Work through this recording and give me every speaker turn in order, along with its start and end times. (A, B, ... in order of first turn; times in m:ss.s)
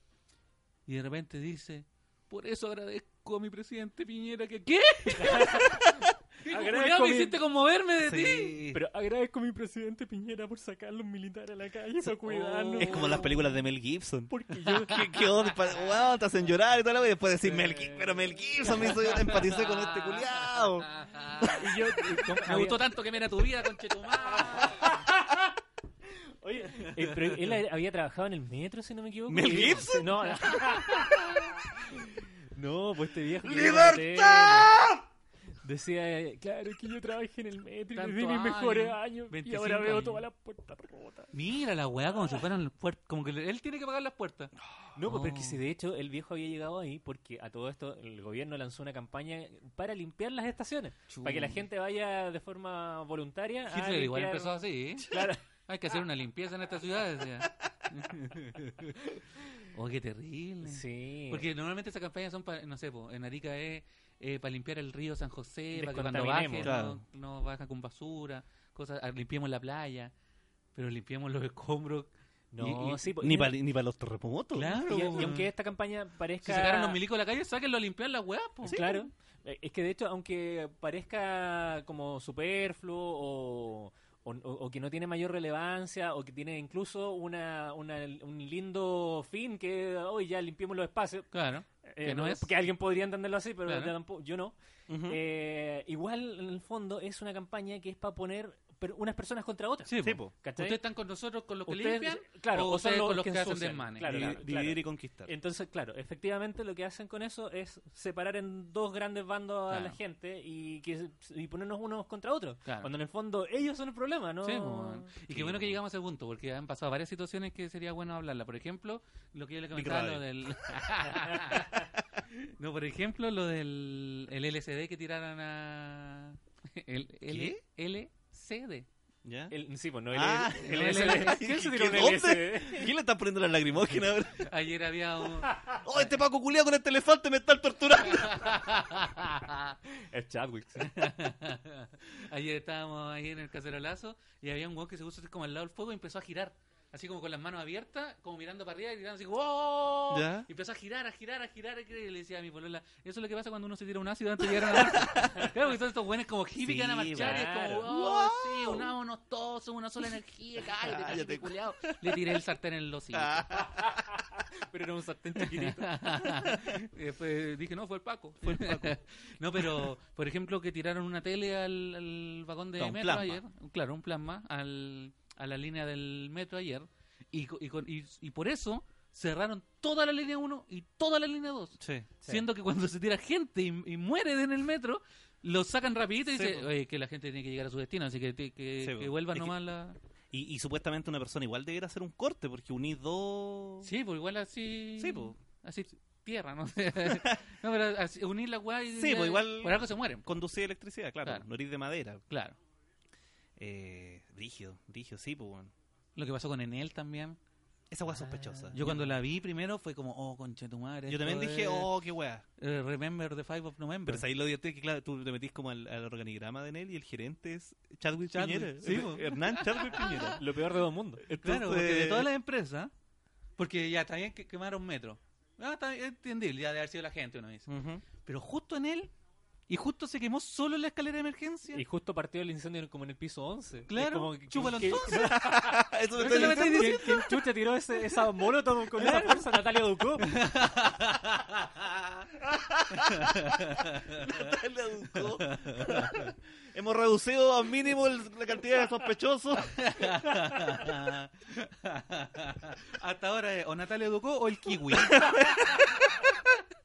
0:00.9-0:08.8 A
0:05.2-0:05.9 B
0:06.5-0:07.4 B
0:08.0-0:08.8 C
0:08.7-0:13.2 B
0:12.2-0:13.3 A
0:12.8-0:21.7 C
0:14.3-0:15.2 B
0:17.4-0:19.3 B
0:18.9-0:21.6 A
0:21.4-0:22.8 B
0:22.2-0:25.0 A
0:24.5-0:25.6 B
0:26.4-0:34.8 B
0:27.0-0:27.4 A
0:29.3-0:31.5 C
0:33.4-0:35.1 C
0:35.6-0:41.3 B
0:38.0-0:40.2 A
0:41.3-0:44.5 A
0:45.0-0:55.4 B
0:45.1-0:45.4 C
0:51.2-0:51.5 A
0:53.7-1:10.1 A
1:00.6-1:01.5 B
1:05.7-1:06.7 B
1:06.6-1:07.0 C
1:10.8-1:13.0 A
1:12.5-1:13.5 B
1:13.2-1:15.3 C
1:14.5-1:15.5 A
1:14.8-1:17.0 B
1:16.4-1:19.1 A
1:18.6-1:31.3 B
1:31.3-1:32.5 A
1:31.8-1:40.8 B
1:33.7-1:33.9 A
1:34.9-1:35.2 C
1:39.9-1:44.4 A
1:40.0-1:40.3 C
1:41.7-1:55.1 B
1:44.0-1:45.3 C
1:49.7-1:50.0 A
1:54.4-2:01.8 A
1:55.3-1:55.8 C
1:59.7-2:00.7 C
2:02.4-2:08.9 A
2:07.3-2:07.6 C
2:09.2-2:09.5 C
2:09.5-2:12.9 B
2:10.1-2:14.5 C
2:10.6-2:11.6 A
2:14.4-2:16.0 A
2:15.8-2:18.6 C
2:18.1-2:19.8 A
2:19.9-2:20.9 B
2:20.8-2:43.6 A
2:30.1-2:30.5 C
2:34.4-2:35.5 C
2:36.6-2:38.9 C
2:37.1-2:37.9 B
2:40.8-2:42.2 C
2:43.1-2:44.0 C
2:43.7-2:46.2 B
2:45.4-3:10.0 A
2:48.4-2:49.0 C
2:49.6-2:49.9 C
2:52.8-2:53.4 C
3:01.8-3:02.1 C
3:06.3-3:06.7 C
3:08.8-3:09.5 C
3:10.3-3:13.9 C
3:13.8-3:20.3 A
3:15.0-3:15.4 C
3:17.0-3:17.4 C
3:18.9-3:22.2 C
3:22.3-3:22.6 A
3:23.6-3:25.7 C
3:26.2-3:27.4 A
3:27.9-3:29.2 C
3:28.1-3:29.0 B
3:28.7-3:31.9 A
3:31.1-3:32.4 C
3:32.6-3:34.3 A
3:34.1-3:40.4 C
3:38.3-3:40.4 A
3:40.0-3:41.3 B
3:41.2-3:42.3 C
3:41.3-3:42.9 A
3:43.6-3:49.1 A
3:47.7-3:48.0 C
3:49.7-3:51.8 A
3:51.7-4:00.4 B
3:53.9-3:55.4 A
3:55.1-3:57.3 C
3:56.1-3:57.4 A
3:59.0-3:59.5 A
4:00.2-4:02.3 A
4:02.5-4:10.1 C
4:02.9-4:04.4 A
4:05.2-4:06.3 A
4:09.7-4:16.3 A
4:14.9-4:16.2 C